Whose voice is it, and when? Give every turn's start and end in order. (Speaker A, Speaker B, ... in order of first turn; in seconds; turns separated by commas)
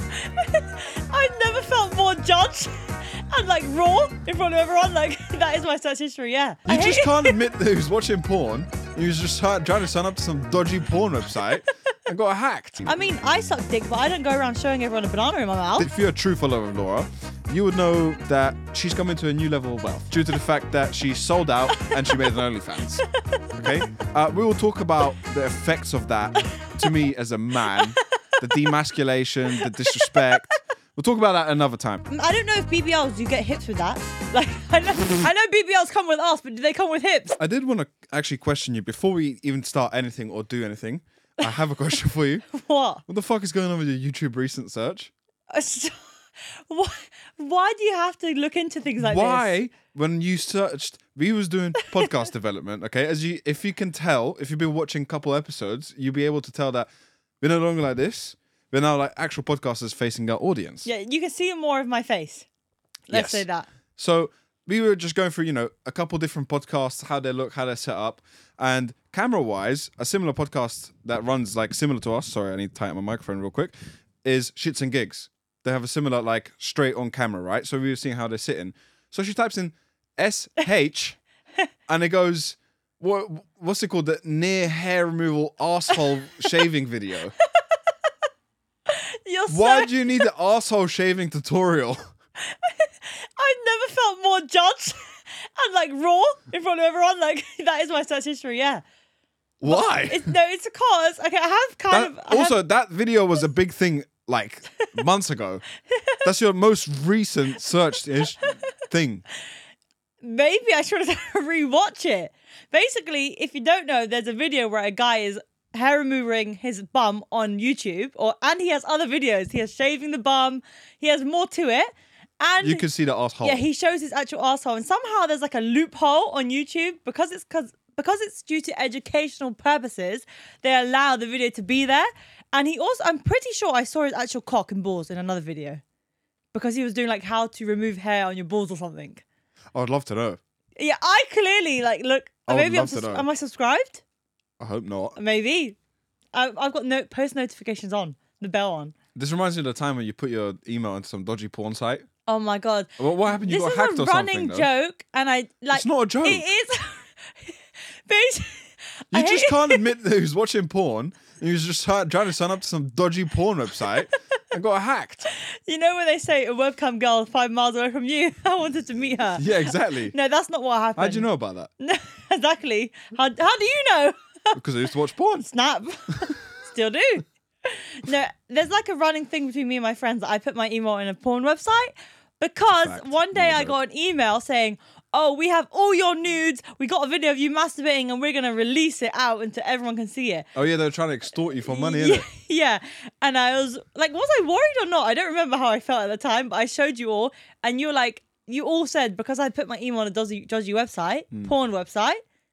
Speaker A: 0.1-7.4, Speaker B: 6.7-12.9, Speaker A: 12.8-15.9, Speaker B: 15.8-32.0, Speaker A: 21.8-22.3, Speaker A: 29.6-30.4, Speaker A: 32.1-37.4, Speaker B: 37.4-42.5, Speaker A: 42.5-43.0, Speaker B: 43.1-45.1, Speaker A: 45.5-46.0, Speaker A: 46.7-49.5, Speaker B: 49.0-56.9, Speaker B: 57.4-60.9, Speaker A: 60.8-62.5, Speaker A: 63.1-63.7, Speaker B: 63.1-63.4, Speaker B: 64.0-81.2, Speaker B: 81.9-87.3, Speaker A: 88.9-89.9, Speaker B: 89.5-92.0, Speaker A: 92.4-98.8, Speaker B: 99.6-100.3, Speaker A: 99.7-102.6, Speaker B: 101.9-105.6, Speaker A: 105.9-106.2, Speaker B: 106.2-109.2, Speaker A: 110.2-122.8, Speaker B: 122.6-123.6, Speaker A: 123.4-135.8, Speaker A: 136.5-139.2, Speaker B: 139.7-140.4, Speaker A: 140.8-144.0, Speaker B: 142.5-143.2, Speaker B: 144.6-145.2, Speaker A: 145.2-145.8, Speaker A: 146.3-148.9, Speaker B: 149.1-152.1, Speaker A: 152.2-159.9, Speaker B: 153.0-154.7, Speaker B: 155.7-156.4, Speaker B: 159.1-165.3, Speaker A: 165.3-171.3, Speaker B: 169.4-170.1, Speaker B: 171.0-171.7, Speaker A: 171.8-174.6, Speaker B: 174.5-175.4, Speaker A: 175.4-190.5, Speaker B: 182.8-183.7, Speaker B: 190.5-192.3, Speaker A: 191.6-202.2